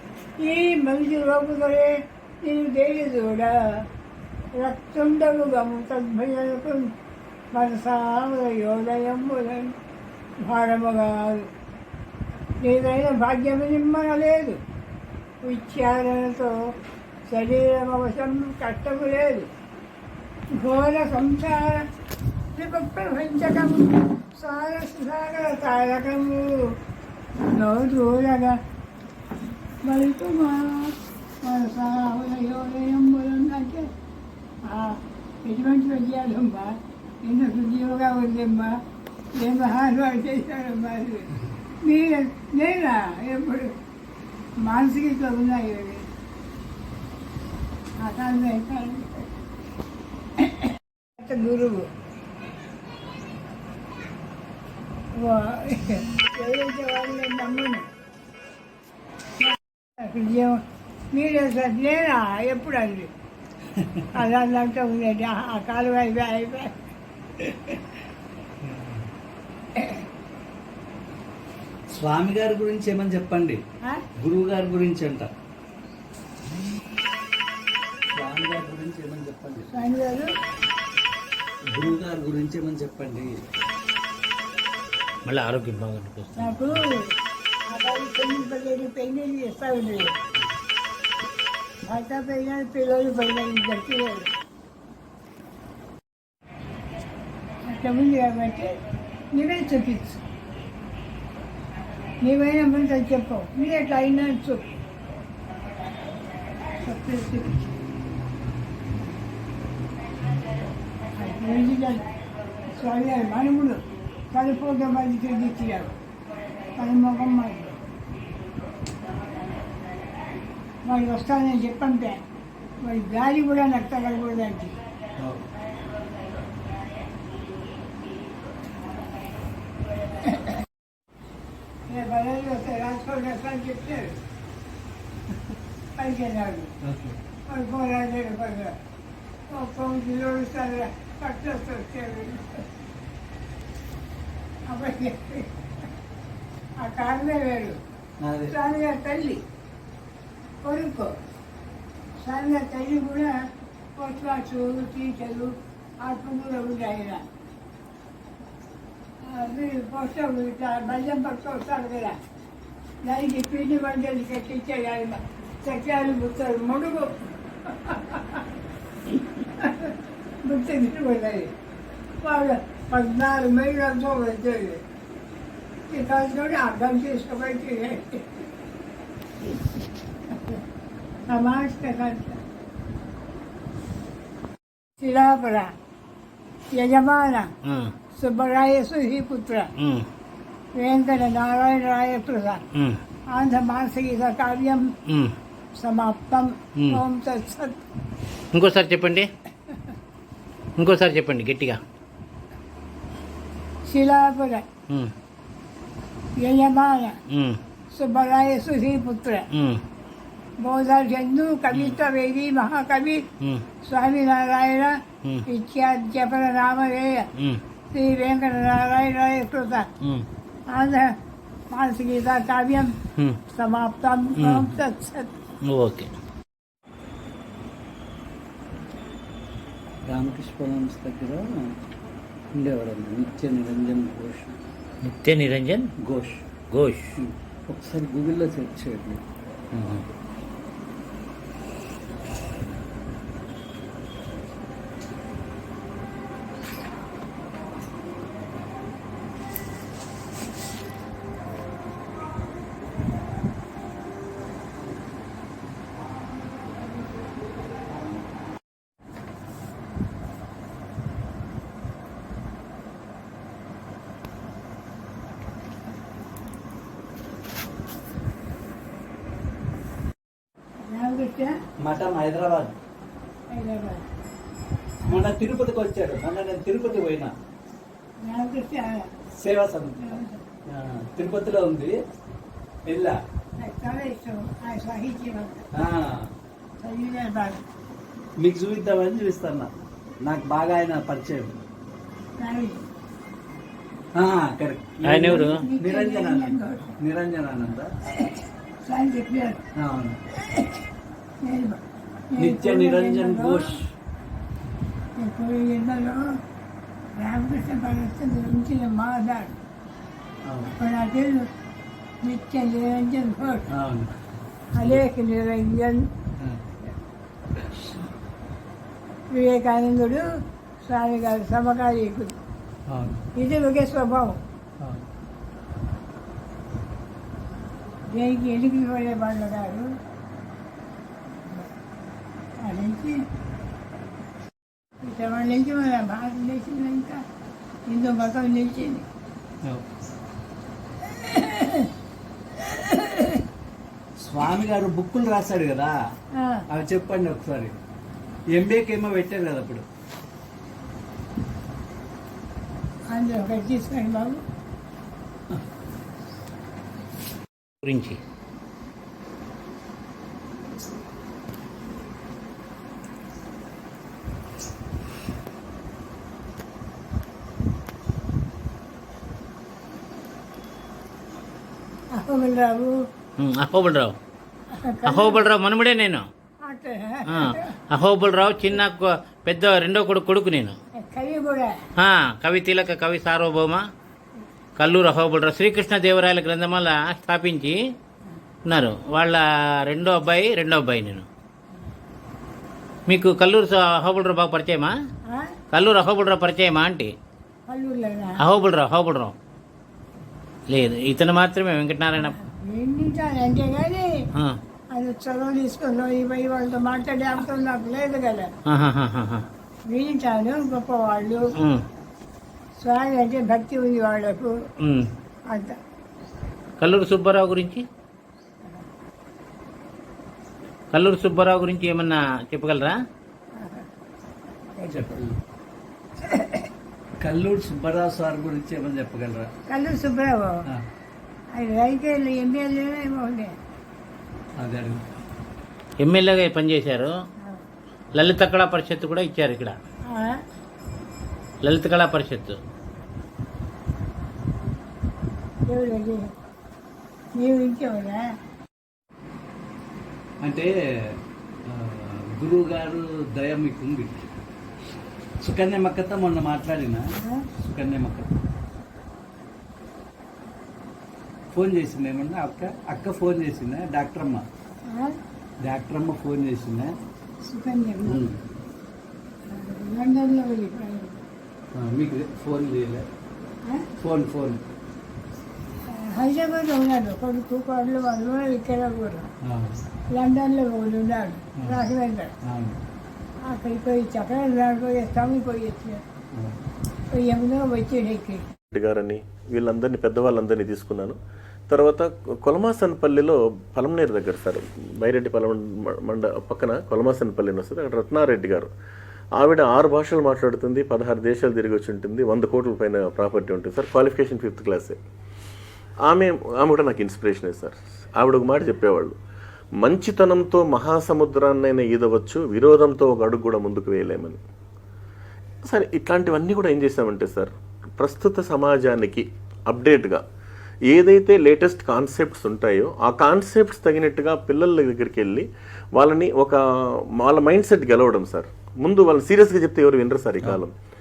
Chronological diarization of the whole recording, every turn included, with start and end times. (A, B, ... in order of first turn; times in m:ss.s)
0:00.4-0:03.8 A
0:04.6-0:06.9 A
0:07.5-0:09.8 A
0:10.4-0:11.5 A
0:12.6-0:14.6 A
0:15.4-0:16.6 A
0:17.3-0:19.5 A
0:20.5-0:21.8 A
0:22.5-0:26.8 A
0:27.5-0:28.6 A
0:29.8-0:33.9 A
0:34.6-0:38.8 A
0:39.3-0:41.3 A
0:41.8-0:43.7 A
0:44.6-0:46.0 A
0:48.0-0:49.3 A
0:50.4-0:51.9 A
0:55.1-0:57.8 A
0:59.4-1:00.6 A
1:01.1-1:03.1 A
1:03.8-1:04.1 B
1:04.1-1:06.8 A
1:07.4-1:07.8 B
1:08.6-1:09.1 B
1:11.9-1:13.6 B
1:14.2-1:15.3 B
1:18.1-1:19.7 B
1:19.7-1:20.3 A
1:21.7-1:23.5 B
1:25.2-1:26.7 C
1:26.4-1:27.1 A
1:27.7-1:30.1 A
1:31.8-1:34.3 A
1:37.6-1:38.7 A
1:39.3-1:40.2 A
1:42.2-1:44.7 A
1:46.8-1:47.7 A
1:51.2-1:52.1 A
1:52.7-1:55.9 A
1:56.8-1:57.8 A
2:00.8-2:02.2 A
2:02.8-2:04.8 A
2:10.2-2:10.5 A
2:11.8-2:14.2 A
2:16.0-2:16.7 A
2:16.8-2:17.2 B
2:17.5-2:18.8 A
2:19.5-2:22.6 A
2:24.7-2:25.5 A
2:26.8-2:27.8 A
2:28.2-2:28.5 B
2:28.5-2:29.4 A
2:30.6-2:31.1 A
2:32.2-2:33.3 A
2:34.0-2:37.2 A
2:39.2-2:42.2 A
2:43.0-2:48.4 A
2:49.4-2:51.5 A
2:52.2-2:54.8 A
2:55.9-2:58.3 A
3:01.3-3:02.4 A
3:05.0-3:05.7 A
3:06.7-3:07.5 A
3:07.6-3:07.9 C
3:08.1-3:09.7 A
3:09.8-3:10.1 C
3:10.7-3:12.6 A
3:12.7-3:13.0 C
3:13.3-3:14.9 A
3:15.1-3:15.4 C
3:15.8-3:17.8 A
3:16.8-3:17.0 C
3:18.5-3:19.3 C
3:20.8-3:21.8 C
3:23.8-3:24.7 A
3:26.4-3:27.2 A
3:27.3-3:27.6 C
3:27.9-3:29.4 A
3:29.5-3:29.8 C
3:30.6-3:33.2 A
3:31.7-3:32.0 C
3:33.4-3:33.7 C
3:33.8-3:37.3 A
3:37.4-3:37.6 C
3:37.9-3:39.9 A
3:40.0-3:40.3 C
3:40.7-3:41.1 A
3:41.7-3:43.0 A
3:43.2-3:43.4 C
3:43.5-3:45.3 A
3:44.4-3:44.7 C
3:45.7-3:46.1 C
3:50.1-3:51.7 B
3:52.5-3:54.6 B
3:55.0-3:55.9 C
3:56.0-3:56.5 B
3:56.7-3:57.1 C
3:57.1-3:59.2 B
3:59.7-4:00.0 C
4:30.8-4:31.5 A
4:31.8-4:32.8 B
4:33.5-4:34.0 A
4:35.0-4:37.3 B
4:38.2-4:39.1 A
4:39.4-4:41.9 B
4:40.0-4:40.4 A
4:42.9-4:43.2 B
4:43.6-4:45.7 A
4:45.7-4:46.3 B
4:46.8-4:47.6 A
4:48.4-4:49.7 B
4:50.2-4:51.6 B
4:52.4-4:52.8 A
4:54.2-4:57.9 B
4:55.0-4:55.6 C
4:55.2-4:56.9 A
4:58.1-4:59.6 A
4:59.8-5:00.2 B
5:00.3-5:00.8 A
5:01.4-5:03.7 A
5:02.4-5:03.9 B
5:05.2-5:06.4 A
5:07.2-5:09.6 A
5:10.4-5:10.7 B
5:10.7-5:11.5 A
5:12.2-5:13.7 A
5:13.7-5:14.2 B
5:14.7-5:16.1 A
5:16.4-5:16.6 B
5:17.6-5:17.8 B
5:19.3-5:20.2 A
5:20.8-5:22.4 A
5:22.9-5:23.2 B
5:23.3-5:24.4 A
5:24.8-5:25.1 B
5:28.1-5:29.9 A
5:31.3-5:31.7 A
5:32.6-5:33.2 A
5:35.0-5:37.2 A
5:37.9-5:39.1 A
5:41.0-5:41.9 A
5:42.5-5:43.4 A
5:44.2-5:45.9 B
5:46.3-5:46.6 A
5:46.7-5:47.7 B
5:48.5-5:49.8 B
5:53.1-5:54.4 A
5:57.8-5:58.2 C
6:12.1-6:13.0 A
6:13.4-6:14.2 C
6:14.7-6:15.4 A
6:15.0-6:16.2 C
6:16.6-6:17.8 A
6:17.3-6:20.8 C
6:21.0-6:21.8 A
6:22.0-6:23.9 C
6:24.8-6:27.8 C
6:28.7-6:31.3 C
6:33.1-6:34.9 C
6:35.3-6:35.6 A
6:35.7-6:37.1 C
6:37.7-6:38.4 A
6:38.4-6:39.3 C
6:40.7-6:42.4 C
6:42.2-6:44.1 A
6:44.9-6:48.5 A
6:48.7-6:49.5 C
6:49.9-6:51.5 A
6:51.6-6:51.8 C
6:52.8-6:54.5 A
6:54.8-6:55.1 C
6:55.5-6:55.8 A
6:56.8-6:57.8 C
7:00.9-7:03.0 C
7:03.6-7:03.9 A
7:04.8-7:05.4 B
7:06.2-7:06.7 A
7:07.2-7:09.5 B
7:09.7-7:10.6 A
7:11.5-7:13.6 A
7:14.6-7:15.0 B
7:16.0-7:17.2 C
7:18.2-7:19.8 C
7:20.1-7:20.4 A
7:21.6-7:22.6 C
7:25.7-7:26.2 A
7:27.3-7:28.2 A
7:30.4-7:34.2 B
7:35.4-7:37.0 B
7:37.6-7:38.3 B
7:41.5-7:44.4 B
7:44.9-7:45.2 A
7:45.6-7:46.9 B
7:47.4-7:48.2 A
7:48.0-7:48.4 B
7:49.5-7:51.2 A
7:51.7-7:53.1 B
7:53.6-7:53.9 A
7:54.0-7:54.6 B
7:55.9-7:59.3 A
7:59.4-7:59.8 B
8:00.1-8:02.3 A
8:02.4-8:02.8 B
8:03.4-8:06.0 A
8:06.3-8:06.6 B
8:07.1-8:08.4 A
8:08.7-8:11.2 D
8:11.7-8:18.7 D
8:19.4-8:25.0 D
8:26.1-8:29.2 D
8:29.8-8:34.4 D
8:35.6-8:40.2 D
8:40.9-8:50.7 D